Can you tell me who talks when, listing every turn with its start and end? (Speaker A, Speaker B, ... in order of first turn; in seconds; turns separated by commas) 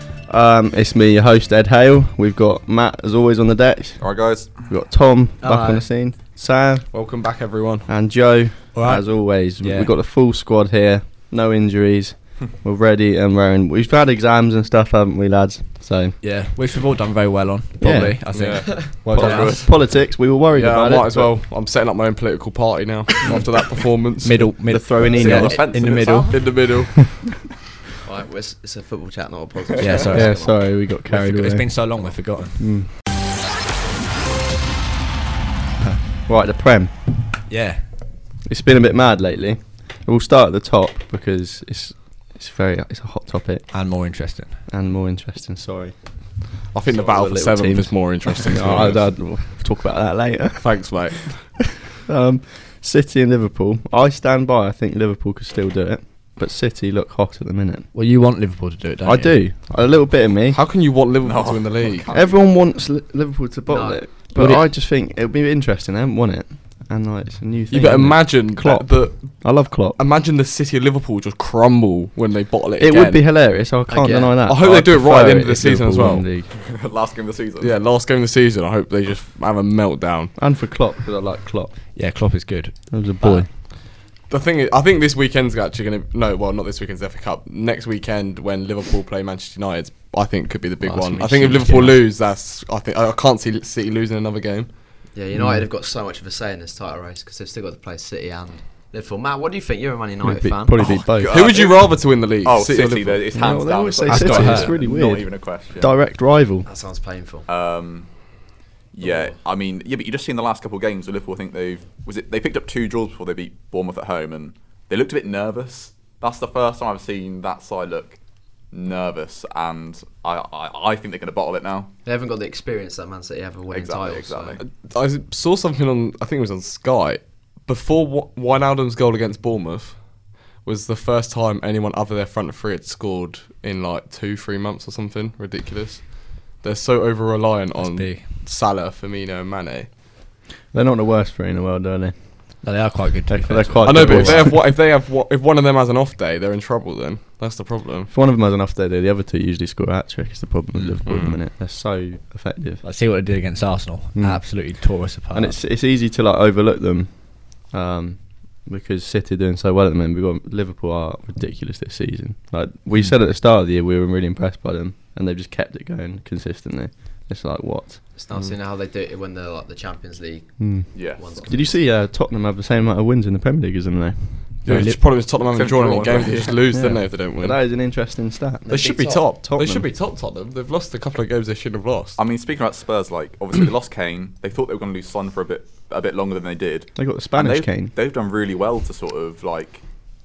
Speaker A: 0.3-4.1, Speaker B: 4.0-4.6, Speaker A: 4.6-6.9, Speaker C: 5.4-5.9, Speaker D: 6.9-7.9, Speaker A: 7.9-16.2, Speaker E: 8.7-9.9, Speaker E: 16.2-19.7, Speaker A: 17.8-18.2, Speaker D: 18.3-19.1, Speaker C: 18.7-19.5, Speaker A: 19.1-21.3, Speaker B: 19.1-19.6, Speaker D: 20.5-24.6, Speaker E: 24.2-26.4, Speaker A: 24.7-25.6, Speaker B: 25.1-26.5, Speaker D: 25.8-27.1, Speaker C: 28.0-30.6, Speaker B: 29.7-30.1, Speaker E: 29.8-30.4, Speaker A: 30.1-31.8, Speaker E: 31.1-32.6, Speaker A: 32.6-32.9, Speaker A: 36.3-36.9, Speaker E: 37.5-37.8, Speaker A: 38.5-43.6, Speaker E: 43.7-44.6, Speaker A: 44.7-45.9, Speaker D: 46.7-49.0, Speaker A: 46.9-50.9, Speaker D: 50.6-51.6, Speaker A: 51.5-57.9, Speaker E: 57.9-59.4, Speaker A: 59.0-60.6, Speaker D: 60.5-62.1, Speaker B: 61.2-62.5, Speaker A: 62.1-70.0, Speaker C: 63.7-64.0, Speaker D: 64.3-64.7, Speaker D: 67.7-73.2, Speaker A: 72.8-76.5, Speaker C: 73.9-74.4, Speaker D: 74.4-76.3, Speaker B: 76.5-77.8, Speaker D: 77.6-80.3, Speaker A: 80.3-81.7, Speaker E: 81.9-82.7, Speaker A: 82.9-83.5, Speaker D: 84.3-94.7, Speaker E: 90.8-91.9, Speaker C: 95.1-101.1, Speaker A: 95.3-95.6, Speaker A: 100.2-101.3, Speaker B: 101.2-105.9, Speaker D: 101.3-103.2, Speaker A: 103.3-106.7, Speaker E: 104.0-104.8, Speaker C: 106.6-107.5, Speaker B: 107.5-108.1, Speaker B: 108.9-118.2, Speaker C: 109.0-109.3, Speaker B: 118.7-121.9, Speaker C: 122.0-124.6, Speaker B: 123.7-124.6, Speaker D: 124.6-130.0, Speaker D: 130.6-139.9, Speaker E: 137.8-138.4, Speaker A: 140.7-142.7, Speaker E: 142.6-144.6, Speaker A: 143.3-144.6, Speaker D: 143.8-148.1, Speaker A: 148.1-152.8, Speaker D: 151.0-151.4, Speaker E: 152.8-155.6, Speaker A: 154.2-154.6, Speaker A: 155.3-168.0, Speaker C: 168.2-171.8, Speaker A: 170.6-174.9, Speaker B: 170.9-171.2, Speaker D: 174.6-177.6, Speaker E: 174.7-175.0, Speaker B: 175.4-176.7, Speaker A: 176.7-178.7, Speaker C: 178.6-179.3, Speaker D: 178.7-182.2, Speaker A: 179.4-179.9, Speaker B: 182.2-189.8, Speaker A: 186.9-187.9